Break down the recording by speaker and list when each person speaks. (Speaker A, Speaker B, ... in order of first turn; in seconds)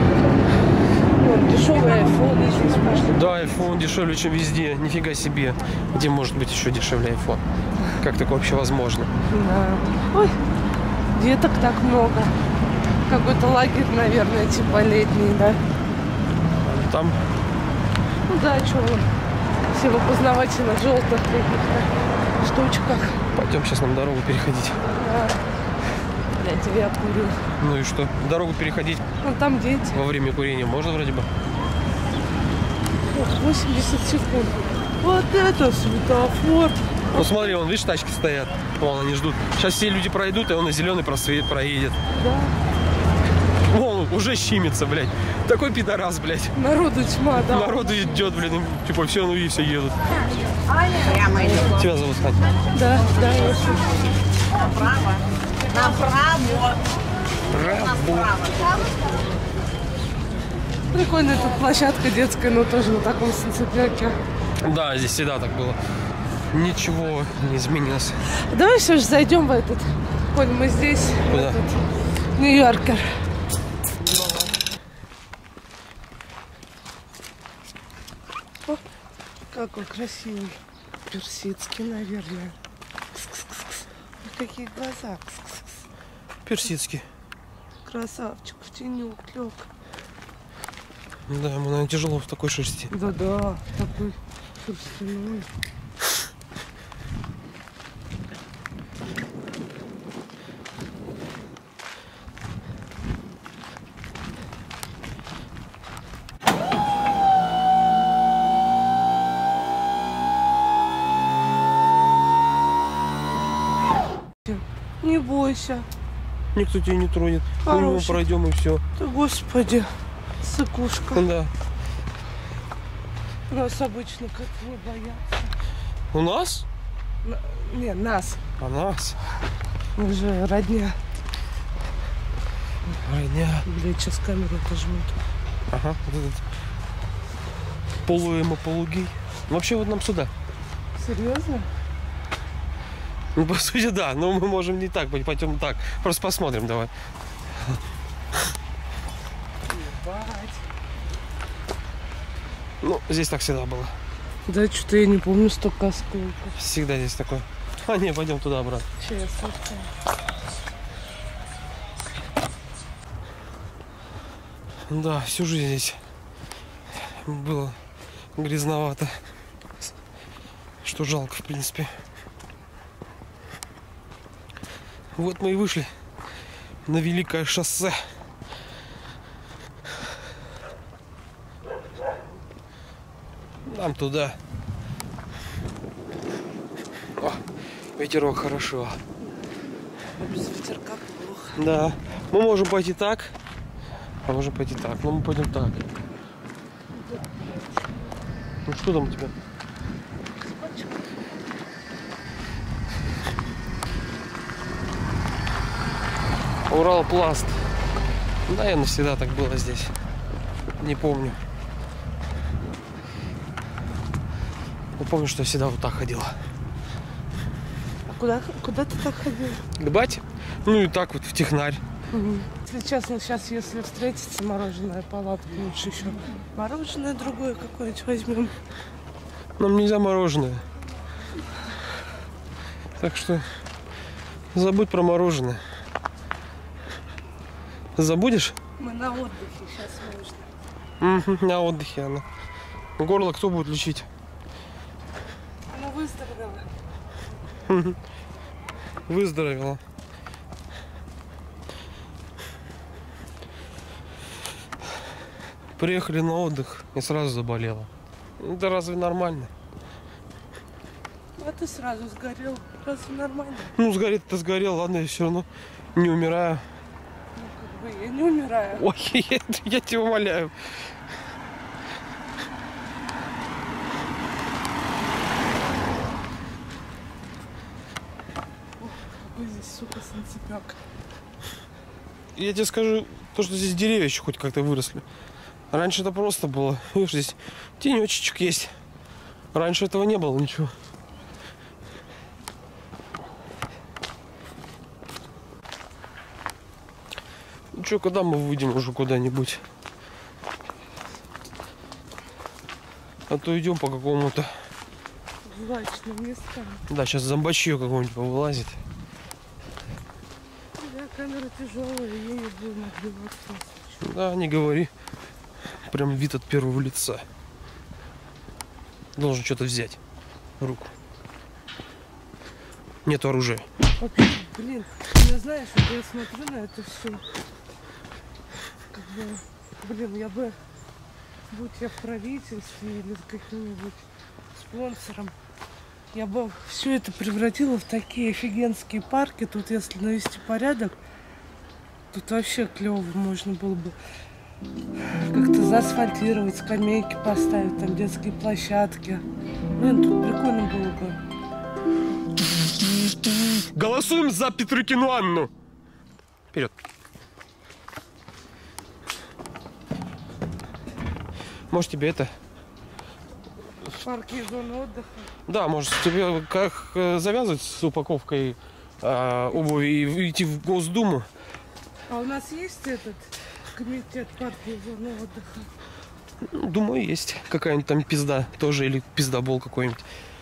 Speaker A: 1.2-3.5, 9.3-10.4, 11.1-12.3, 13.1-15.6, 18.3-19.1, 19.7-21.9, 22.4-23.2, 24.9-25.4, 26.4-27.4, 29.2-30.0, 33.1-36.8, 42.1-42.5, 46.5-48.0, 52.7-54.0, 60.9-64.2, 68.5-71.8, 72.3-73.1, 74.0-74.5, 79.5-80.6, 81.1-82.5, 83.1-85.8, 87.8-89.7, 92.9-95.5, 114.5-115.9, 117.6-118.2, 119.0-119.9, 120.4-121.2, 123.5-125.5, 127.2-128.4, 129.9-130.9, 133.7-135.2, 140.9-141.7, 154.5-156.5, 159.0-159.9, 190.2-191.6, 200.4-201.0, 218.1-219.6, 222.1-228.5, 238.8-240.5, 245.7-246.6, 261.4-263.7, 267.3-268.9, 278.8-280.8, 305.4-306.8, 310.8-314.0, 324.0-327.2, 328.9-330.6, 331.5-334.0, 334.6-335.3, 336.1-340.9, 342.1-343.9, 345.3-349.2, 349.8-351.2, 363.9-365.3, 372.1-375.7
Speaker B: 3.0-7.4, 8.0-9.1, 16.6-17.2, 23.3-24.8, 27.6-29.0, 29.9-31.3, 37.1-42.0, 43.6-46.5, 47.4-50.0, 51.3-52.5, 57.5-58.3, 64.6-65.8, 66.5-68.2, 71.3-71.6, 86.4-87.1, 91.3-92.9, 116.5-118.8, 121.1-121.5, 126.1-126.7, 128.6-129.2, 132.8-133.7, 135.7-136.4, 138.0-140.3, 143.3-146.9, 147.5-147.8, 152.8-153.9, 156.6-158.9, 164.9-166.0, 166.9-167.8, 168.3-169.2, 170.8-171.9, 175.2-175.9, 176.8-178.1, 183.6-184.4, 187.2-187.4, 187.9-189.0, 191.6-193.3, 194.2-195.9, 198.6-199.3, 206.7-207.6, 208.5-209.9, 210.8-211.4, 215.0-216.3, 219.8-221.8, 229.6-230.6, 233.0-233.4, 234.5-235.6, 237.9-238.6, 241.0-242.2, 243.0-244.1, 247.7-248.0, 249.1-249.8, 255.8-259.5, 263.8-266.6, 268.7-270.7, 282.4-285.1, 285.7-288.7, 289.5-290.7, 297.7-299.6, 303.3-304.5, 306.9-308.8, 314.0-314.9, 315.9-317.2, 319.1-320.0, 320.6-320.9, 323.0-323.6, 353.7-355.5, 361.7-362.3, 365.5-371.3, 376.4-380.0
Speaker C: 50.9-51.6, 55.7-56.8, 58.0-58.7